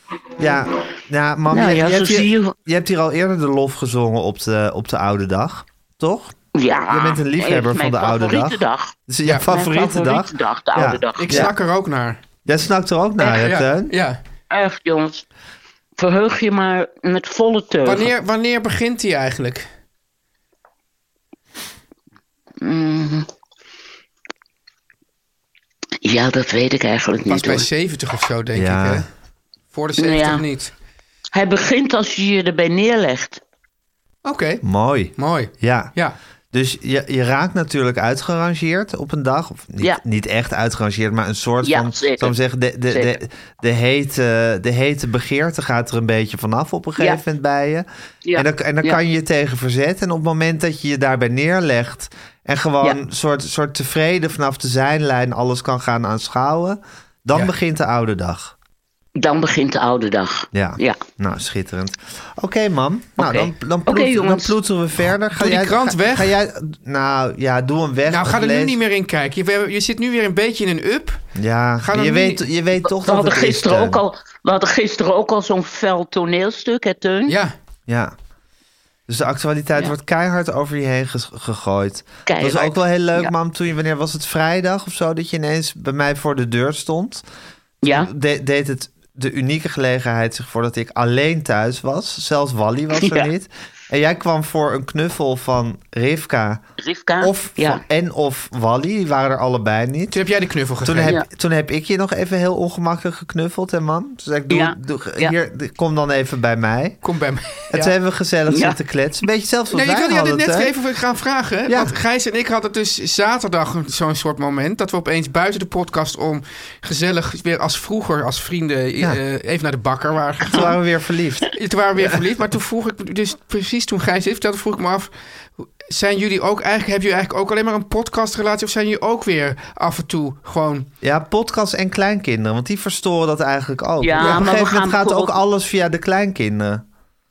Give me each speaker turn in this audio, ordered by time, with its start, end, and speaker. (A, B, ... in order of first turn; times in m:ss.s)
0:00.4-0:06.3 A
0:01.5-0:02.5 B
0:06.5-0:11.5 B
0:06.9-0:11.5 A
0:11.2-0:12.2 C
0:12.4-0:13.9 A
0:13.2-0:14.2 C
0:14.5-0:15.2 B
0:16.0-0:18.1 B
0:17.8-0:19.7 C
0:22.6-0:23.3 B
0:26.0-0:27.7 B
0:27.3-0:29.1 C
0:28.5-0:29.1 A
0:29.7-0:30.7 C
0:30.0-0:30.4 B
0:31.3-0:33.4 B
0:34.2-0:34.6 C
0:34.6-0:35.9 A
0:35.2-0:36.2 C
0:36.5-0:58.5 A
0:41.6-0:42.3 B
0:42.9-0:43.2 B
0:48.2-0:49.0 B
0:59.2-1:01.0 B
1:00.5-1:08.8 A
1:03.2-1:04.6 B
1:05.3-1:06.3 C
1:08.1-1:11.2 C
1:11.3-1:14.0 A
1:11.8-1:12.4 C
1:12.8-1:17.4 B
1:17.3-1:17.5 C
1:17.9-1:18.1 A
1:19.1-1:27.2 A
1:22.2-1:23.3 B
1:27.8-1:28.1 B
1:27.8-1:36.6 A
1:33.0-1:33.3 B
1:36.8-1:37.8 B
1:37.2-1:40.2 A
1:40.1-1:41.1 C
1:40.8-1:47.0 A
1:44.5-1:45.3 B
1:47.0-1:47.9 C
1:47.7-1:50.7 A
1:48.5-1:48.8 B
1:49.7-2:00.7 C
1:51.7-1:51.9 A
2:00.4-2:01.5 A
2:01.5-2:10.9 C
2:11.0-2:16.8 A
2:14.0-2:15.4 B